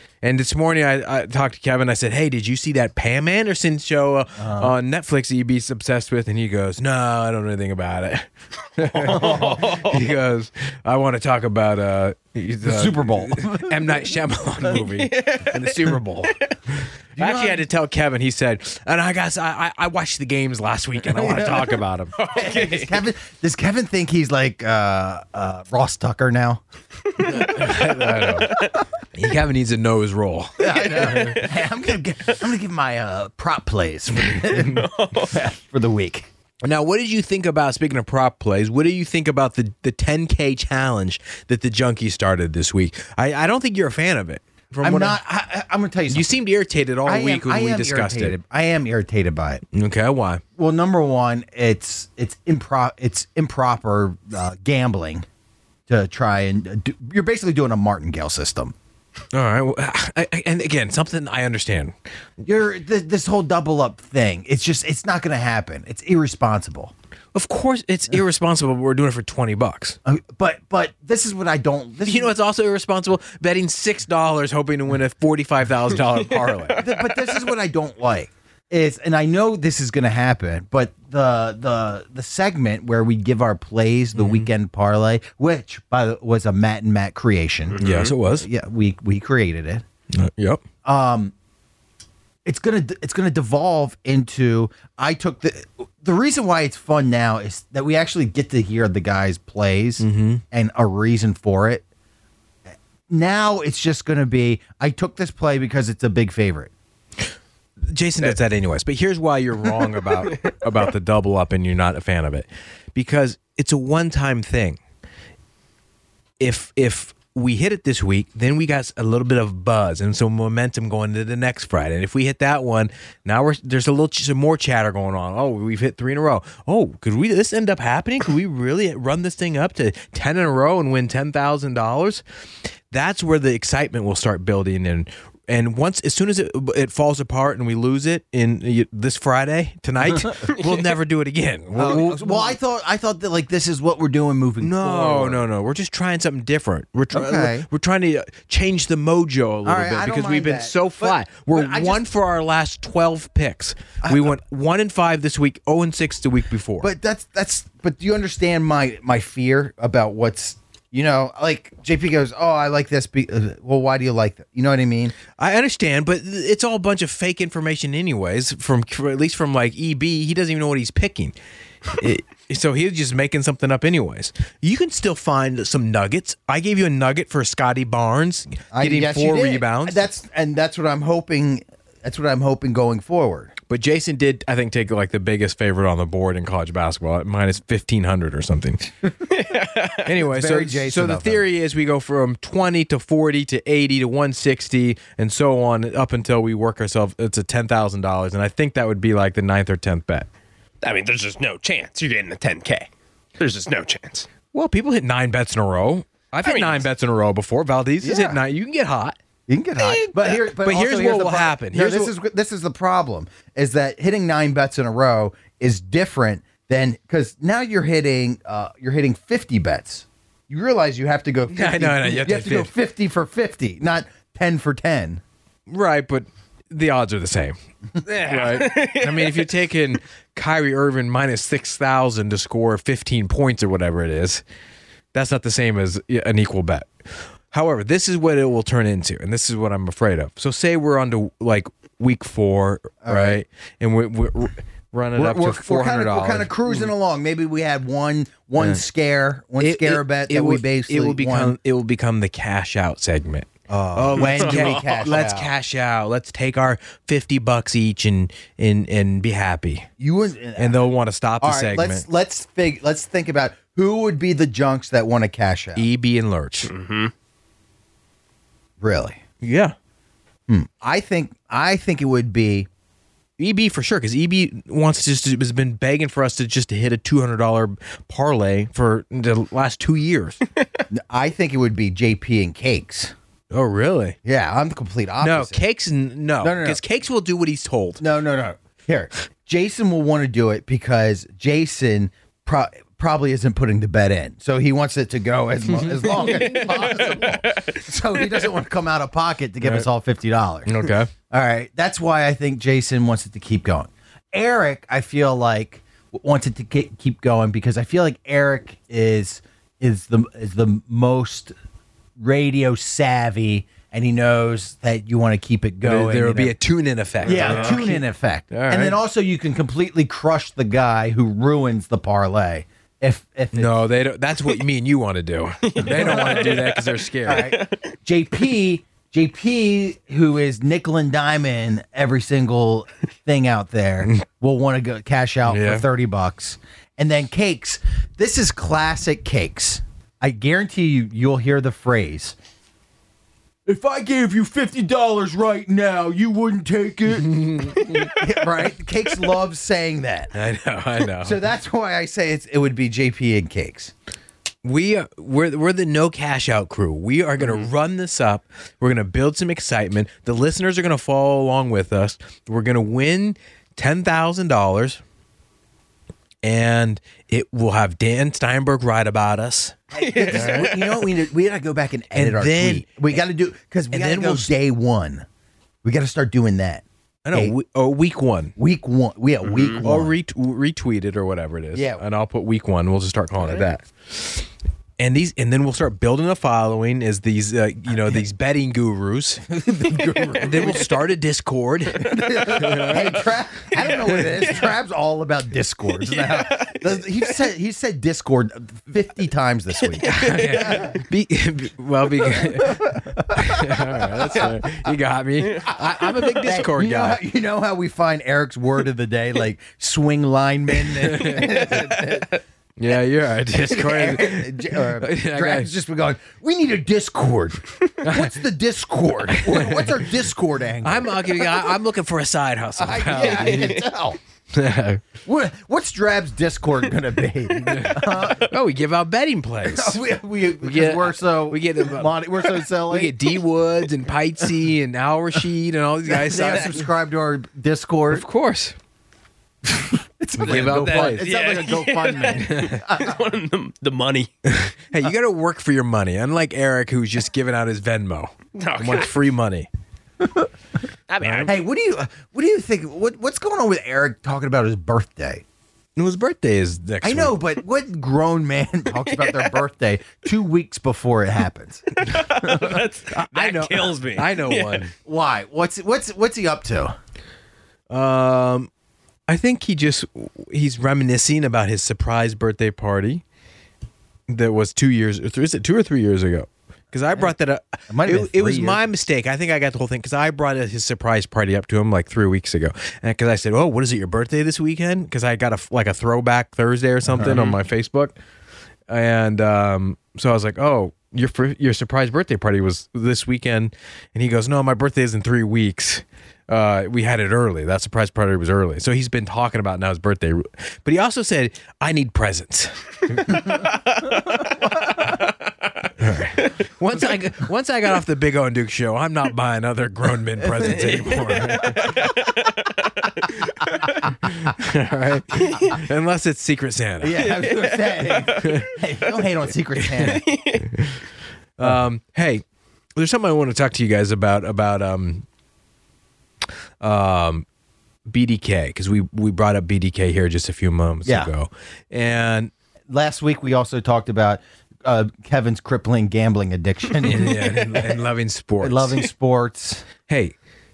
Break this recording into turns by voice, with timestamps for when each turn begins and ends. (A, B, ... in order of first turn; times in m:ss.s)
0:00.2-0:16.4 A
0:04.4-0:04.8 B
0:09.0-0:10.0 C
0:09.1-0:09.8 B
0:12.6-0:13.8 B
0:14.8-0:15.6 C
0:17.2-0:17.7 B
0:17.2-0:22.2 A
0:21.1-0:26.6 B
0:22.2-0:22.9 C
0:27.2-0:27.6 C
0:27.3-0:28.6 A
0:28.5-0:28.8 C
0:29.1-0:31.4 A
0:30.6-0:36.3 B
0:30.6-0:31.5 C
0:34.5-0:34.8 A
0:34.6-0:35.4 C
0:36.6-0:45.2 A
0:44.8-0:46.4 B
0:46.1-0:48.4 A
0:47.0-0:49.6 B
0:49.7-0:50.4 A
0:50.6-0:55.3 B
0:55.9-0:58.7 B
0:59.3-1:01.9 A
1:02.4-1:06.9 B
1:07.3-1:10.0 A
1:10.0-1:12.3 B
1:12.0-1:16.8 A
1:16.8-1:29.8 B
1:24.2-1:24.5 A
1:27.7-1:28.1 C
1:27.8-1:28.5 A
1:30.1-1:30.6 A
1:30.8-1:31.3 B
1:32.4-1:41.8 B
1:40.0-1:40.4 A
1:43.1-1:46.7 B
1:47.8-1:54.8 A
1:56.4-2:12.2 A
2:12.9-2:22.6 A
2:21.8-2:25.5 B
2:24.6-2:36.9 A
2:27.1-2:27.7 B
2:29.6-2:32.1 B
2:34.0-2:34.4 B
2:36.8-2:45.2 B
2:45.4-2:51.4 A
2:51.9-3:00.1 A
2:58.7-3:03.5 B
3:03.7-3:08.9 A
3:09.3-3:10.0 C
3:10.0-3:20.3 A
3:10.2-3:11.4 B
3:20.8-3:24.3 C
3:24.5-3:29.2 A
3:26.4-3:26.8 C
3:28.0-3:28.4 B
3:29.5-3:45.2 B
3:30.2-3:32.1 A
3:41.5-3:42.7 A
3:45.7-3:47.6 A
3:48.0-3:49.5 C
3:48.2-3:54.4 A
3:55.1-3:56.9 A
3:57.5-4:06.9 A
4:03.0-4:03.4 B
4:05.2-4:11.6 B
4:09.6-4:19.9 A
4:13.7-4:15.5 B
4:14.2-4:15.0 C
4:20.0-4:20.9 B
4:20.6-4:22.1 A
4:21.4-4:25.8 B
4:25.8-4:26.7 A
4:26.7-4:27.1 C
4:28.8-4:29.2 B
4:29.4-4:29.8 A
4:30.5-4:32.7 B
4:33.4-4:40.4 A
4:40.9-4:43.1 B
4:43.5-4:44.2 A
4:44.2-4:45.6 B
4:45.2-4:48.0 A
4:46.4-4:46.8 B
4:48.0-5:11.5 B
4:55.7-4:56.1 A
4:56.1-4:57.8 C
5:00.7-5:01.1 A
5:12.2-5:16.6 B
5:15.8-5:19.0 A
5:17.2-5:23.8 B
5:17.3-5:17.8 C
5:23.5-5:27.5 A
5:25.7-5:27.8 C
5:25.9-5:26.5 B
5:27.2-5:42.4 B
5:35.5-5:35.8 A
5:43.7-5:50.4 B
5:47.2-5:48.1 A
5:50.3-5:51.4 A
5:51.2-5:53.9 B
5:54.6-6:05.0 A
6:06.4-6:10.7 A
6:09.9-6:15.3 B
6:09.9-6:11.1 C
6:12.1-6:13.0 A
6:13.9-6:14.5 A
6:15.8-6:17.6 B
6:17.2-6:18.6 A
6:18.6-6:20.1 B
6:19.5-6:19.8 C
6:19.8-6:24.4 A
6:21.7-6:22.0 B
6:25.0-6:33.2 A
6:29.8-6:30.8 B
6:32.0-6:41.0 B
6:36.2-6:36.9 C
6:40.0-6:40.8 C
6:40.0-6:47.2 A
6:42.4-6:44.9 B
6:45.7-6:52.3 B
6:51.0-6:51.9 A
6:52.8-6:55.7 A
6:53.6-7:01.5 B
6:58.0-6:58.3 A
6:59.4-7:00.0 A
7:00.8-7:03.8 A
7:02.8-7:04.2 B
7:03.2-7:03.8 C
7:04.5-7:05.0 A
7:05.2-7:08.5 B
7:07.7-7:10.0 A
7:09.7-7:13.2 B
7:10.6-7:12.2 A
7:12.8-7:16.8 A
7:16.1-7:18.3 B
7:18.1-7:18.8 A
7:19.7-7:23.2 B
7:20.4-7:21.3 A
7:20.5-7:24.3 C
7:22.3-7:22.8 A
7:24.5-7:29.7 A
7:28.6-7:29.1 C
7:31.1-7:31.6 C
7:31.2-7:31.5 A
7:31.4-7:35.4 B
7:36.0-7:37.4 A
7:37.0-7:41.9 B
7:39.1-7:39.5 C
7:42.0-7:44.9 C
7:42.4-7:42.8 B
7:43.1-7:44.9 A
7:45.1-7:46.9 B
7:47.9-7:48.7 A
7:49.3-7:53.2 A
7:54.3-8:08.2 A
7:57.9-7:58.8 B
8:07.0-8:07.5 B
8:07.3-8:07.5 C
8:08.9-8:23.5 A
8:26.0-8:32.0 A
8:30.6-8:31.0 B
8:32.2-8:32.7 C
8:34.2-8:37.2 A
8:37.0-8:40.3 B
8:37.3-8:38.5 C
8:38.4-8:38.7 A
8:40.1-8:40.6 C
8:40.7-8:41.0 A
8:41.6-8:42.4 A
8:43.0-8:45.2 A
8:46.8-8:47.4 A
8:48.1-8:52.5 A
8:51.0-8:51.3 B
8:52.9-8:58.0 B
8:57.0-8:59.0 A
8:58.6-8:59.8 B
9:00.1-9:00.4 A